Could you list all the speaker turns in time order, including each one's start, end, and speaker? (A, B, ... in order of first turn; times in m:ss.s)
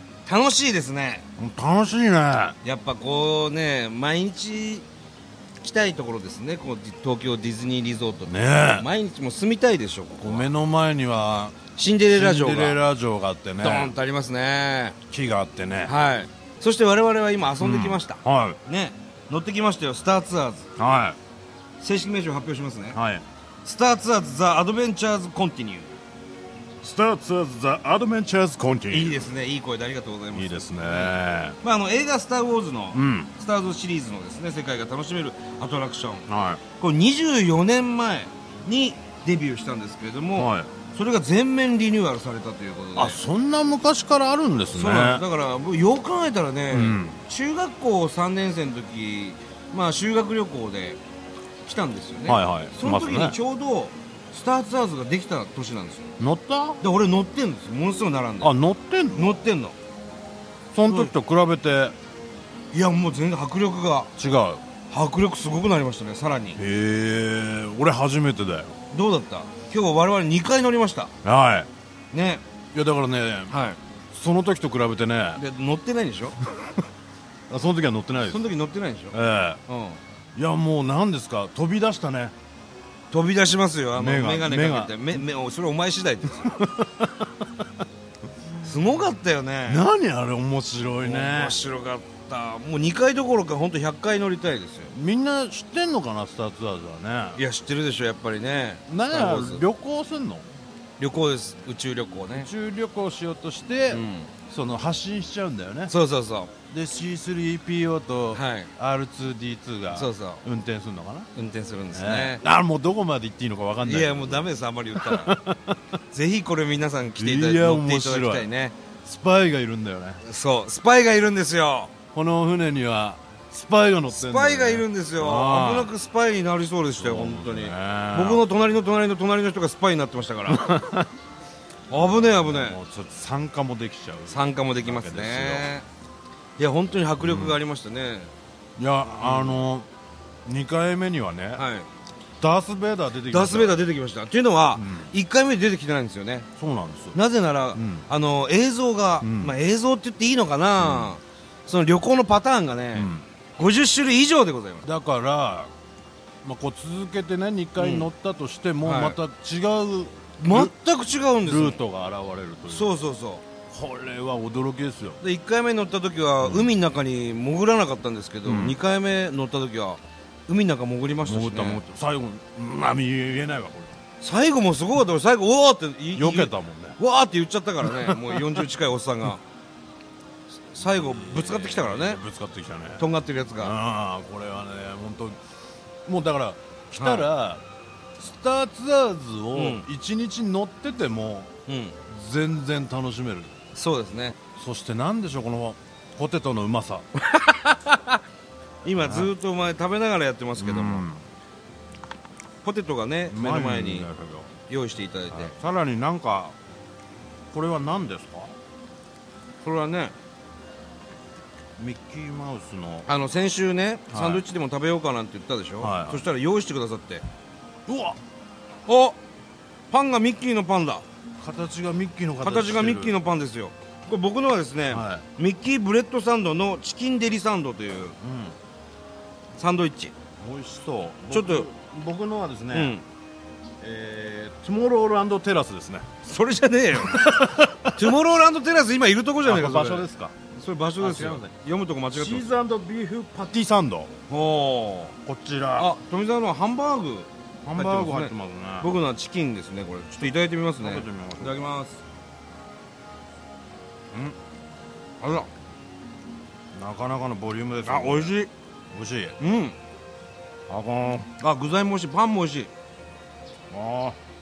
0:00.2-0:01.2 A
0:01.4-0:02.6 B
0:02.6-0:04.8 A
0:05.6-0:10.5 A
0:08.3-0:08.9 B
0:10.2-0:13.9 B
0:11.8-0:12.8 A
0:13.6-0:15.0 A
0:15.1-0:15.9 B
0:15.8-0:20.7 A
0:17.6-0:18.6 B
0:20.8-0:21.2 B
0:21.8-0:23.0 A
0:22.9-0:23.2 B
0:23.6-0:25.9 A
0:26.8-0:29.3 B
0:28.9-0:43.2 A
0:30.3-0:31.6 B
0:32.9-0:33.3 B
0:36.3-0:36.6 B
0:40.4-0:40.7 B
0:43.0-0:45.2 B
0:44.7-0:51.0 A
0:46.7-0:47.2 B
0:51.6-0:56.2 A
0:52.3-0:53.4 B
0:56.2-0:56.8 B
0:56.8-0:58.6 A
0:58.4-0:59.4 B
0:59.1-0:59.8 A
1:00.7-1:02.0 B
1:00.9-1:01.1 A
1:02.7-1:04.1 A
1:04.2-1:04.6 B
1:04.9-1:06.6 A
1:06.6-1:08.8 B
1:08.9-1:11.1 A
1:11.2-1:11.7 B
1:12.1-1:12.4 A
1:12.7-1:13.5 B
1:13.5-1:13.8 A
1:14.1-1:15.4 B
1:15.4-1:16.4 A
1:17.5-1:18.5 B
1:18.2-1:20.0 A
1:19.1-1:19.6 B
1:20.3-1:22.3 B
1:23.1-1:26.6 A
1:24.0-1:25.2 B
1:26.4-1:27.4 B
1:28.6-1:29.8 A
1:29.7-1:31.6 B
1:31.0-1:34.9 A
1:34.9-1:37.4 B
1:37.4-1:39.6 A
1:38.9-1:40.4 B
1:41.0-1:42.5 A
1:42.4-1:45.9 B
1:43.9-1:44.3 A
1:45.9-1:46.5 A
1:46.7-1:51.3 B
1:48.3-1:48.7 A
1:49.9-1:50.4 A
1:51.3-1:52.4 A
1:51.9-1:55.8 B
1:53.8-1:55.4 A
1:56.1-1:58.8 A
1:57.2-1:58.5 B
1:59.0-2:00.2 B
2:00.2-2:01.9 A
2:02.1-2:05.9 B
2:04.1-2:10.6 A
2:07.0-2:08.4 B
2:10.5-2:11.1 B
2:11.9-2:12.8 A
2:11.9-2:15.7 B
2:14.3-2:15.8 A
2:16.6-2:18.3 A
2:17.2-2:17.6 B
2:18.8-2:19.9 B
2:19.2-2:19.6 A
2:20.4-2:21.6 B
2:21.6-2:21.9 A
2:22.4-2:23.8 B
2:23.3-2:26.5 A
2:24.7-2:25.1 B
2:26.6-2:27.2 B
2:27.1-2:34.8 A
2:27.7-2:28.1 B
2:29.2-2:29.6 B
2:30.8-2:31.1 B
2:32.9-2:33.2 B
2:34.8-2:35.7 B
2:36.4-2:40.8 B
2:37.8-2:38.1 A
2:38.8-2:39.2 A
2:40.4-2:41.8 A
2:41.4-2:42.9 B
2:42.7-2:43.4 A
2:43.7-2:45.2 B
2:45.2-2:51.9 A
2:46.4-2:46.7 B
2:48.4-2:48.8 B
2:51.2-2:54.0 B
2:54.2-2:59.4 A
2:56.1-2:57.0 B
2:57.8-2:58.6 B
3:00.7-3:02.2 A
3:00.8-3:05.4 B
3:03.0-3:03.7 A
3:06.0-3:07.6 B
3:07.0-3:07.3 A
3:08.2-3:11.5 B
3:09.5-3:09.8 A
3:11.7-3:12.0 A
3:12.1-3:13.5 B
3:13.7-3:14.4 A
3:14.6-3:17.0 B
3:17.2-3:18.2 A
3:18.8-3:21.1 A
3:19.0-3:19.3 B
3:20.6-3:21.2 B
3:22.6-3:24.1 A
3:23.3-3:24.5 B
3:24.7-3:25.5 A
3:25.3-3:26.5 B
3:27.5-3:28.5 B
3:29.6-3:30.1 A
3:31.8-3:33.1 B
3:33.1-3:37.2 A
3:34.1-3:34.4 B
3:35.8-3:36.2 B
3:37.9-3:38.2 B
3:38.9-3:39.2 A
3:39.9-3:41.0 A
3:41.4-3:43.2 B
3:42.4-3:48.2 A
3:44.9-3:45.2 B
3:48.2-3:48.5 B
3:49.6-3:50.1 A
3:50.4-3:52.9 B
3:51.3-3:51.7 A
3:52.7-3:53.0 A
3:53.8-3:56.1 B
3:56.2-4:02.4 A
3:57.1-3:58.1 B
3:59.4-4:00.3 B
4:01.0-4:01.5 B
4:02.1-4:04.1 B
4:04.3-4:05.1 A
4:05.2-4:05.9 B
4:05.8-4:12.0 A
4:07.6-4:08.9 B
4:10.2-4:11.6 B
4:15.2-4:15.5 B
4:16.7-4:19.4 B
4:17.8-4:18.5 A
4:19.4-4:19.8 A
4:20.7-4:21.3 B
4:21.4-4:22.7 A
4:23.7-4:24.2 B